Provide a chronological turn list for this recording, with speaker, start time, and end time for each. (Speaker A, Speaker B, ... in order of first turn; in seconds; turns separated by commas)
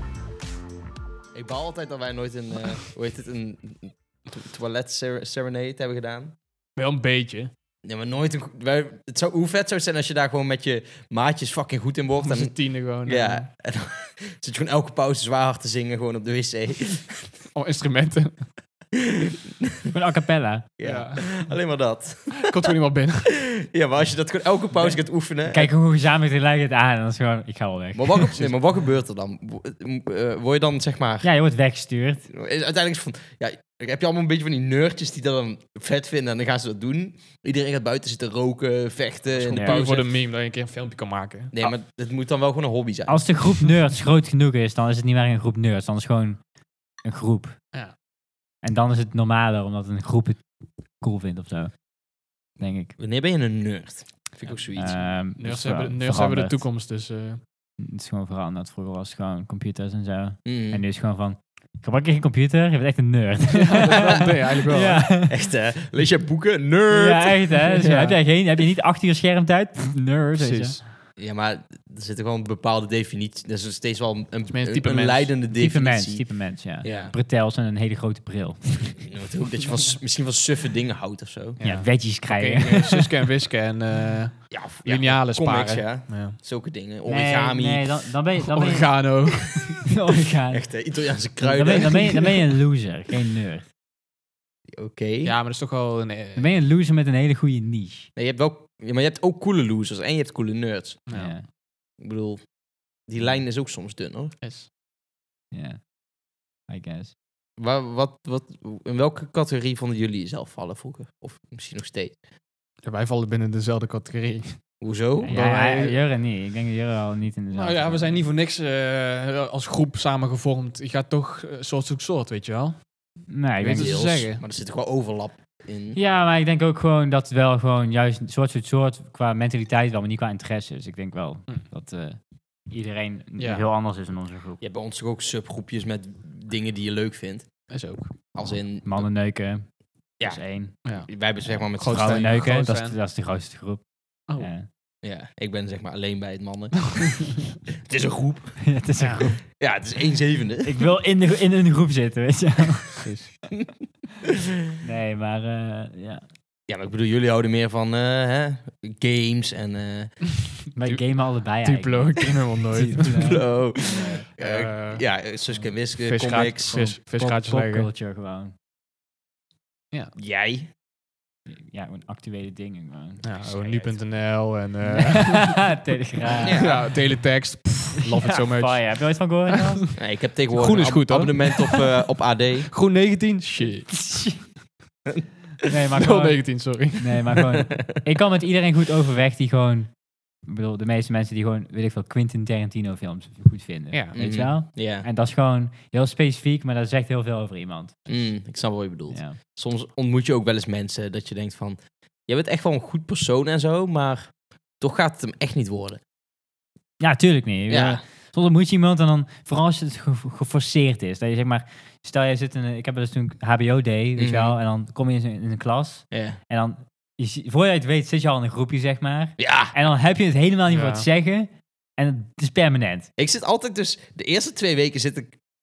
Speaker A: 1.3-6.3, Speaker B: 6.8-7.5, Speaker A: 7.8-17.3, Speaker B: 12.2-13.5, Speaker B: 17.5-18.5, Speaker A: 18.9-19.9, Speaker C: 19.9-20.7, Speaker A: 20.8-22.5, Speaker B: 20.8-21.2, Speaker B: 22.3-23.3, Speaker A: 23.3-25.7, Speaker C: 25.5-28.3, Speaker A: 27.9-31.3, Speaker C: 31.2-32.2, Speaker A: 32.3-40.1, Speaker B: 39.3-41.6, Speaker C: 39.5-39.8, Speaker A: 41.5-43.2, Speaker C: 43.1-46.4, Speaker C: 47.0-47.6, Speaker C: 48.6-50.4, Speaker C: 51.0-51.8, Speaker C: 52.6-53.0, Speaker A: 53.0-55.1, Speaker C: 54.7-56.6, Speaker B: 55.4-57.4, Speaker C: 57.8-65.3, Speaker A: 60.4-60.8, Speaker B: 63.6-65.0, Speaker A: 63.9-64.2, Speaker A: 65.3-67.6, Speaker C: 66.9-70.8, Speaker B: 67.7-68.2, Speaker B: 70.4-70.8, Speaker A: 71.2-77.1, Speaker B: 74.5-75.3, Speaker C: 75.5-79.0, Speaker A: 79.0-81.6, Speaker B: 81.6-86.3, Speaker C: 81.6-83.0, Speaker A: 82.6-82.9, Speaker A: 84.5-87.8, Speaker C: 87.0-90.7, Speaker B: 88.4-89.9, Speaker A: 90.5-92.4, Speaker C: 91.4-93.7, Speaker A: 94.8-95.3, Speaker B: 95.2-96.5, Speaker C: 96.3-98.1, Speaker A: 98.2-101.0, Speaker B: 101.1-101.3, Speaker C: 101.1-101.5, Speaker A: 102.0-102.5, Speaker A: 103.1-104.3, Speaker B: 104.4-104.7, Speaker C: 105.5-105.8, Speaker C: 106.7-107.1, Speaker A: 107.6-112.2, Speaker B: 112.8-116.0, Speaker A: 114.8-115.3, Speaker C: 115.2-118.2, Speaker B: 117.5-122.9, Speaker C: 123.3-124.0, Speaker B: 123.6-124.4, Speaker A: 123.7-126.0, Speaker C: 125.9-134.6, Speaker B: 133.4-133.6, Speaker A: 134.6-137.7, Speaker B: 137.7-138.1, Speaker A: 138.3-139.1, Speaker C: 138.8-140.7, Speaker A: 140.2-142.4, Speaker B: 141.8-142.9, Speaker C: 141.8-143.8, Speaker C: 144.4-144.7, Speaker A: 145.0-148.7, Speaker C: 148.6-149.4, Speaker B: 149.0-149.3, Speaker A: 149.6-150.8, Speaker C: 150.6-153.1, Speaker B: 153.0-153.3, Speaker C: 154.8-156.2, Speaker A: 156.7-160.4, Speaker C: 160.7-164.3, Speaker B: 160.8-163.5, Speaker A: 163.1-166.9, Speaker B: 164.4-165.0, Speaker B: 166.0-167.9, Speaker C: 167.1-168.5, Speaker A: 170.2-170.7, Speaker C: 171.7-174.0, Speaker B: 173.2-175.8, Speaker C: 174.8-176.7, Speaker B: 176.4-178.9, Speaker A: 176.4-176.8, Speaker C: 178.0-179.8, Speaker B: 179.5-179.8, Speaker A: 180.0-182.7, Speaker B: 180.5-181.9, Speaker B: 182.7-183.9, Speaker C: 183.9-184.5, Speaker C: 185.6-198.2, Speaker B: 185.9-187.4, Speaker B: 193.9-194.2, Speaker A: 194.1-195.1, Speaker A: 198.1-206.0, Speaker C: 199.1-199.4, Speaker C: 207.0-223.1, Speaker A: 207.7-208.0, Speaker A: 214.2-214.6, Speaker A: 216.1-216.4, Speaker A: 219.4-219.7, Speaker B: 220.7-221.1, Speaker A: 223.2-225.3